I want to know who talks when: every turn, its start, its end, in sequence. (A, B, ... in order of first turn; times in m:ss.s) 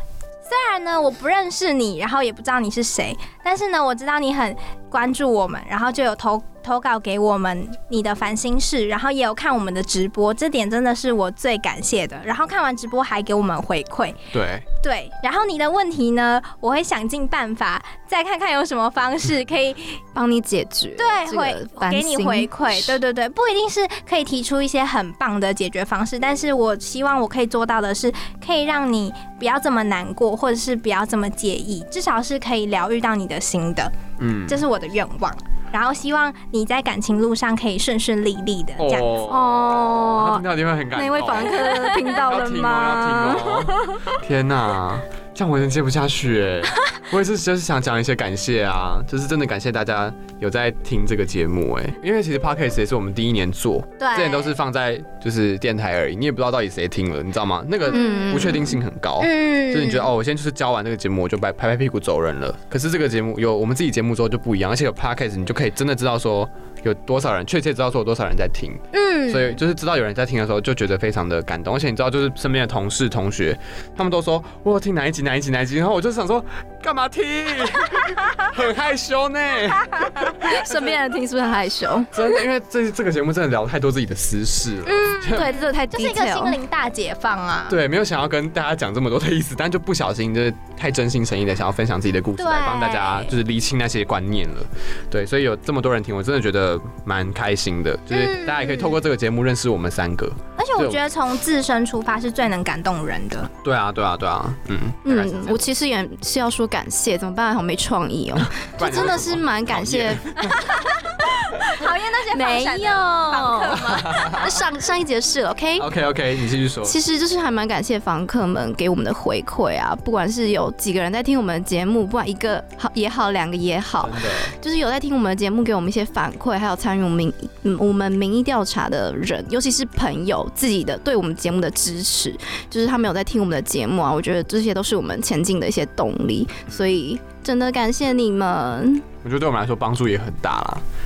0:00.4-0:14.2 A
0:14.3-0:14.6 B
0:14.8-0:20.0 A
0:20.1-0:23.0 C
0:21.0-0:33.9 A
0:34.2-0:34.6 B
0:34.5-0:39.1 A
0:38.8-0:41.7 B
0:39.3-0:40.4 C
0:40.9-0:43.7 C
0:41.5-0:42.2 A
0:42.2-1:21.0 B
0:54.0-0:54.5 A
0:57.9-0:58.8 C
0:57.9-0:58.3 A
0:59.2-1:00.1 A
1:08.9-1:09.6 A
1:20.4-1:22.1 C
1:22.1-1:25.5 B
1:24.8-1:27.8 A
1:25.3-1:26.6 C
1:27.7-1:41.0 B
1:32.4-1:33.3 A
1:38.2-1:38.8 C
1:38.3-1:38.7 A
1:40.6-1:43.5 A
1:43.6-1:45.7 B
1:45.0-1:50.2 C
1:48.4-1:50.7 B
1:50.5-1:54.2 A
1:52.3-1:55.9 C
1:53.8-1:54.6 B
1:55.8-1:57.0 B
1:56.8-2:19.0 C
2:04.0-2:04.5 B
2:19.2-2:20.8 B